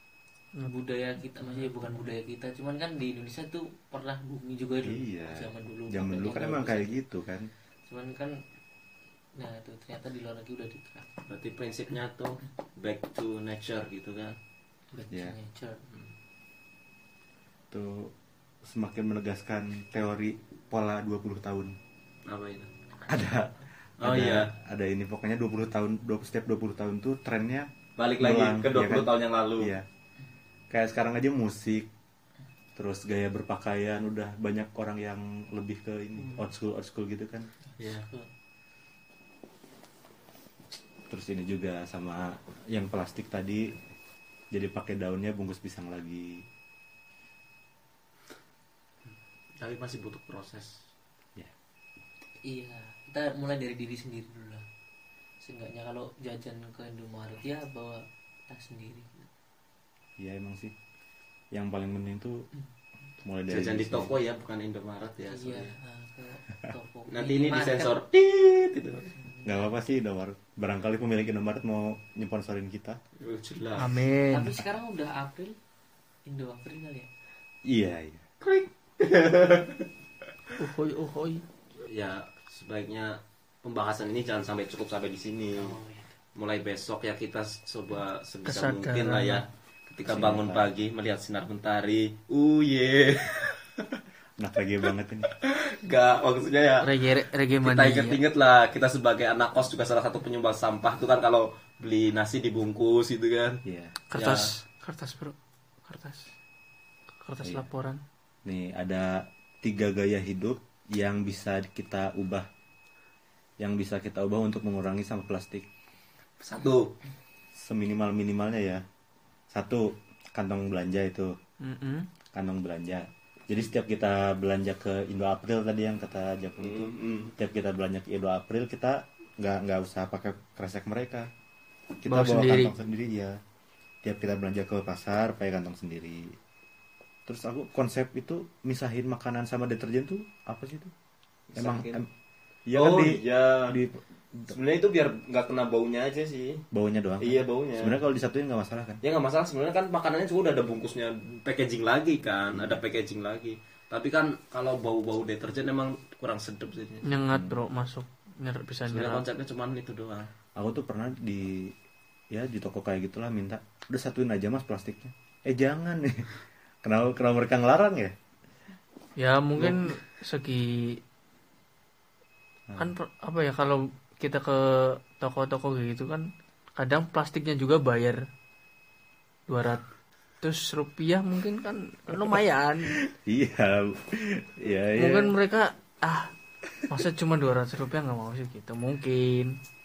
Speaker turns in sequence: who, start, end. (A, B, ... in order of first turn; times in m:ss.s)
0:00.6-0:07.0 A
0:04.8-0:07.5 B
0:07.9-0:08.4 A
0:09.4-0:11.2 A
0:11.3-0:14.4 C
0:14.9-0:15.8 A
0:17.7-0:18.1 B
0:18.6-0:21.8 B
0:22.3-0:22.7 C
0:23.1-0:29.8 B
0:24.0-0:24.5 C
0:28.0-0:29.7 C
0:30.7-0:31.9 B
0:32.7-0:37.5 B
0:37.7-0:38.3 A
0:37.8-0:38.1 C
0:41.1-0:43.7 B
0:44.5-0:46.4 B
0:49.6-0:50.8 C
0:52.4-0:54.6 A
0:55.4-0:59.3 A
1:00.2-1:00.7 B
1:01.5-1:02.5 B
1:03.2-1:04.1 B
1:03.5-1:05.7 C
1:05.3-1:08.0 A
1:07.1-1:09.1 C
1:09.2-1:09.6 A
1:09.4-1:13.0 B
1:13.2-1:14.0 C
1:13.8-1:14.5 D
1:14.3-1:15.6 A
1:16.2-1:17.1 A
1:17.7-1:18.2 B
1:18.4-1:19.9 C
1:20.6-1:21.4 D
1:21.8-1:25.7 C
1:25.5-1:26.1 A
1:26.4-1:33.9 C
1:28.4-1:29.4 D
1:30.0-1:30.7 B
1:34.4-1:35.3 B
1:35.4-1:37.0 C
1:36.8-1:38.2 D
1:37.6-1:43.6 C
1:43.6-1:44.0 B
1:44.1-1:46.3 D
1:44.1-1:44.5 C
1:47.2-1:48.0 D
1:48.4-1:52.5 B
1:53.6-1:55.7 B
1:56.4-1:56.9 C
1:57.6-1:58.8 B
1:59.5-2:01.3 B
2:01.6-2:02.1 D
2:02.3-2:11.3 B
2:06.6-2:07.3 C
2:12.0-2:13.4 B
2:12.1-2:12.7 D
2:14.0-2:16.4 B
2:17.2-2:20.9 B
2:21.5-2:22.0 C
2:21.6-2:22.1 B
2:22.6-2:24.5 B
2:22.7-2:23.8 C
2:24.5-2:26.6 C
2:26.7-2:29.0 B
2:27.2-2:27.9 C
2:29.0-2:37.0 C
2:32.5-2:32.8 B
2:37.0-2:39.2 D
2:37.3-2:37.6 B
2:38.9-2:40.3 C
2:40.6-2:41.7 B
2:42.3-2:46.3 B
2:46.8-2:48.1 B
2:49.2-2:51.0 D
2:52.7-2:52.9 B
2:52.8-2:58.2 D
2:59.5-2:59.8 D
3:00.4-3:03.0 D
3:03.1-3:05.3 B
3:05.0-3:06.3 D
3:06.9-3:09.5 D